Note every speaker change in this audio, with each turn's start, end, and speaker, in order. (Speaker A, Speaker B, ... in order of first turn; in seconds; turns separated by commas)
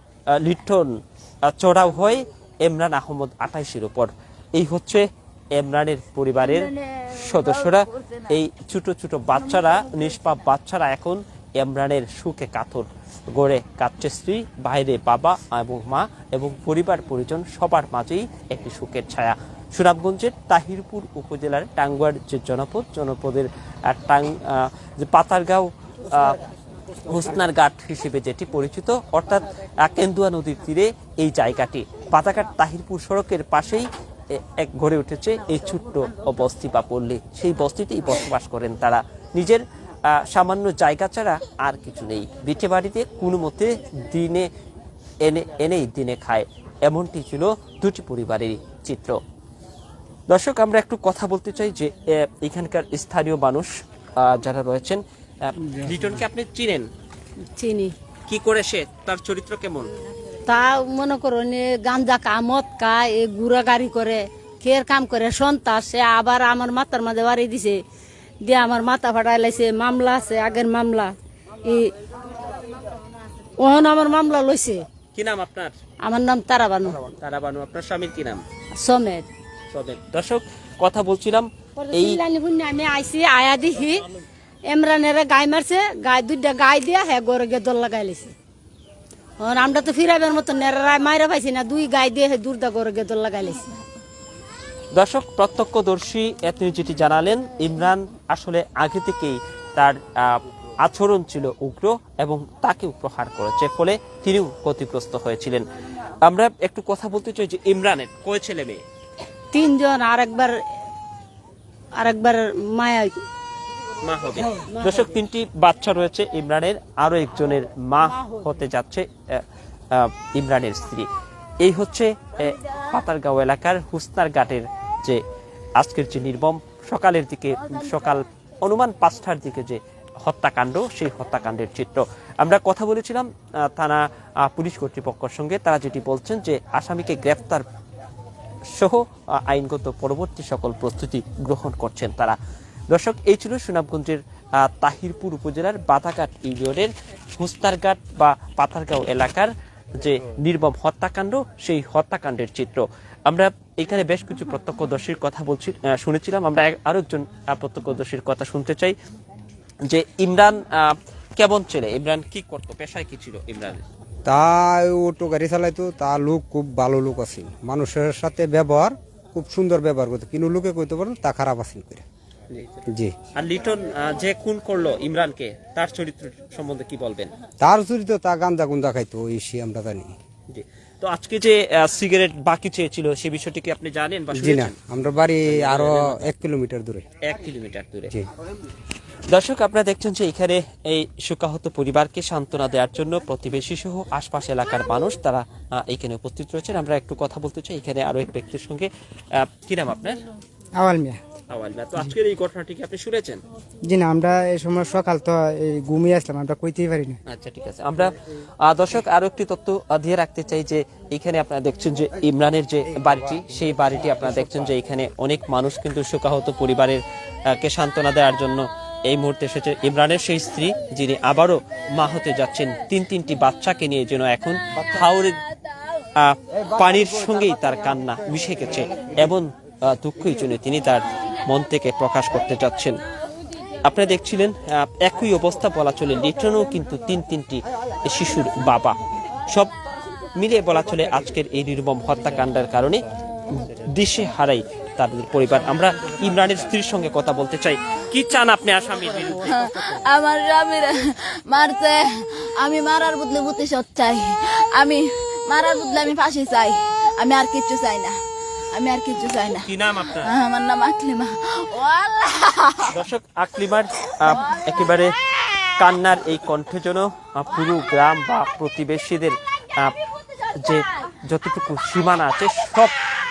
Speaker A: 0.3-26.4, Speaker B: 6.5-8.3, Speaker A: 27.1-44.5, Speaker A: 45.2-49.2, Speaker A: 50.3-56.9, Speaker C: 55.7-56.2, Speaker D: 57.5-57.9, Speaker A: 58.3-59.9, Speaker D: 60.5-67.8, Speaker D: 68.4-71.9, Speaker D: 73.6-74.8, Speaker A: 75.1-75.8, Speaker D: 76.0-77.0, Speaker A: 77.1-78.4, Speaker D: 78.7-79.3, Speaker A: 79.7-82.2, Speaker D: 81.8-84.1, Speaker D: 84.7-88.3, Speaker D: 89.4-93.6, Speaker A: 94.9-105.6, Speaker A: 106.2-108.8, Speaker D: 109.5-110.5, Speaker D: 112.0-113.2, Speaker A: 114.0-121.1, Speaker D: 114.7-115.0, Speaker A: 121.6-125.2, Speaker A: 125.8-137.7, Speaker A: 138.7-142.4, Speaker A: 142.9-158.9, Speaker A: 159.8-163.8, Speaker C: 164.2-172.0, Speaker A: 172.5-172.8, Speaker A: 173.3-177.3, Speaker C: 177.6-180.1, Speaker A: 180.5-184.8, Speaker C: 184.3-187.0, Speaker A: 185.5-186.3, Speaker A: 187.2-188.1, Speaker A: 189.3-200.2, Speaker E: 200.8-201.2, Speaker A: 201.5-203.4, Speaker E: 203.9-207.1, Speaker A: 207.3-225.4, Speaker A: 226.2-233.0, Speaker A: 233.8-239.0, Speaker A: 240.4-249.6, Speaker B: 249.5-258.2, Speaker B: 258.7-262.9, Speaker A: 259.6-260.3, Speaker A: 262.9-265.1, Speaker A: 265.8-269.9, Speaker A: 270.6-272.9